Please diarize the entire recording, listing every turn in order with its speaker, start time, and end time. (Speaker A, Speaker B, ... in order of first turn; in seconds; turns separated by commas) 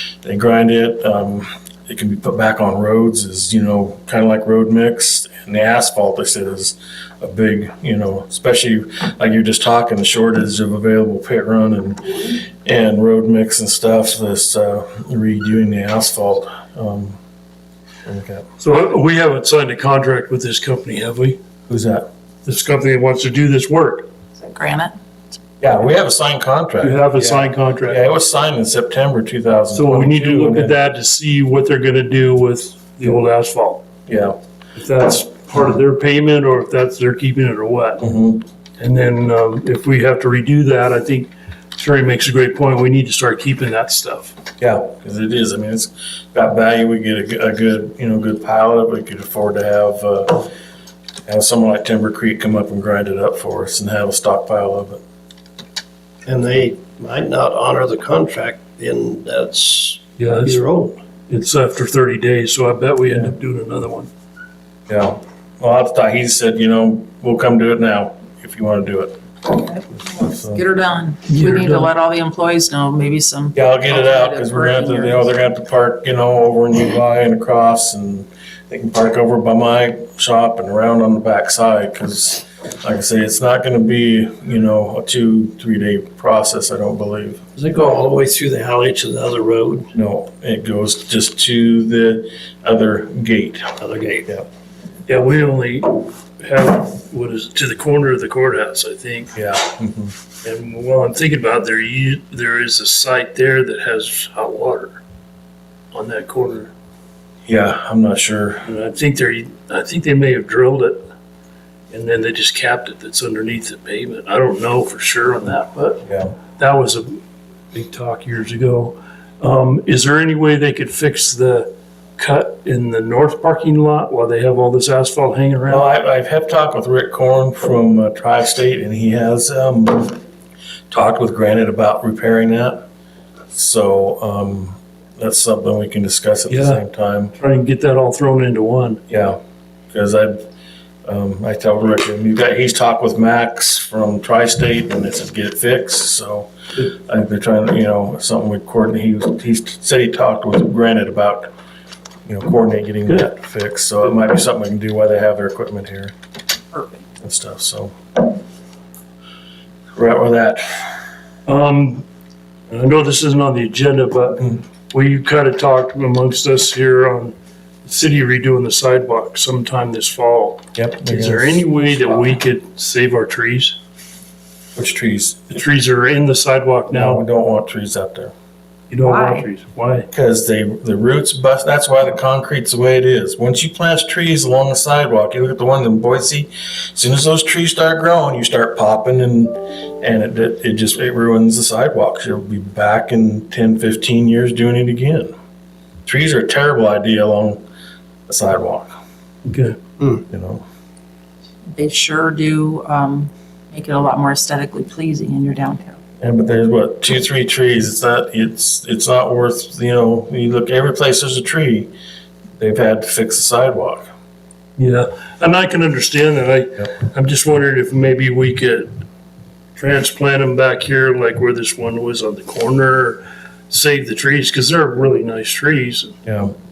Speaker A: 0.2-17.2, Speaker A: 18.1-18.5, Speaker B: 18.6-21.4, Speaker A: 21.7-22.1, Speaker B: 22.4-24.1, Speaker C: 24.4-24.9, Speaker A: 25.6-30.7, Speaker B: 26.8-28.0, Speaker B: 29.7-33.9, Speaker A: 34.1-34.4, Speaker B: 34.8-38.0, Speaker A: 38.0-38.5, Speaker B: 38.8-44.4, Speaker A: 44.6-50.5, Speaker A: 51.3-55.0, Speaker D: 56.2-61.0, Speaker B: 60.2-60.6, Speaker B: 61.3-64.1, Speaker A: 64.9-69.2, Speaker C: 69.5-75.3, Speaker A: 70.0-70.6, Speaker B: 71.3-71.9, Speaker A: 73.5-87.4, Speaker D: 87.6-89.9, Speaker A: 89.9-94.5, Speaker D: 93.8-94.3, Speaker B: 95.1-99.4, Speaker A: 99.3-100.2, Speaker B: 100.4-105.0, Speaker B: 105.9-106.7, Speaker A: 107.5-108.7, Speaker B: 108.7-111.0, Speaker B: 111.9-117.2, Speaker A: 116.1-116.4, Speaker B: 117.7-125.9, Speaker A: 125.7-130.2, Speaker A: 130.9-132.8, Speaker A: 133.5-137.3, Speaker B: 136.5-136.8, Speaker B: 137.4-139.0, Speaker A: 139.1-139.4, Speaker A: 139.9-140.4, Speaker A: 141.1-151.5, Speaker A: 152.3-156.1, Speaker A: 157.2-158.0, Speaker A: 159.9-160.9, Speaker B: 161.5-162.1, Speaker B: 162.7-173.8, Speaker A: 170.8-171.7, Speaker A: 174.8-175.5, Speaker B: 175.5-177.2, Speaker A: 176.9-178.3, Speaker B: 178.9-180.1, Speaker C: 179.1-179.5, Speaker A: 180.1-195.3, Speaker A: 196.1-197.6, Speaker A: 198.3-198.9, Speaker B: 199.5-199.8, Speaker A: 200.3-200.6, Speaker C: 201.7-206.0, Speaker A: 206.2-211.9, Speaker A: 212.6-214.1, Speaker B: 214.8-218.9, Speaker B: 219.8-226.2, Speaker A: 226.2-226.5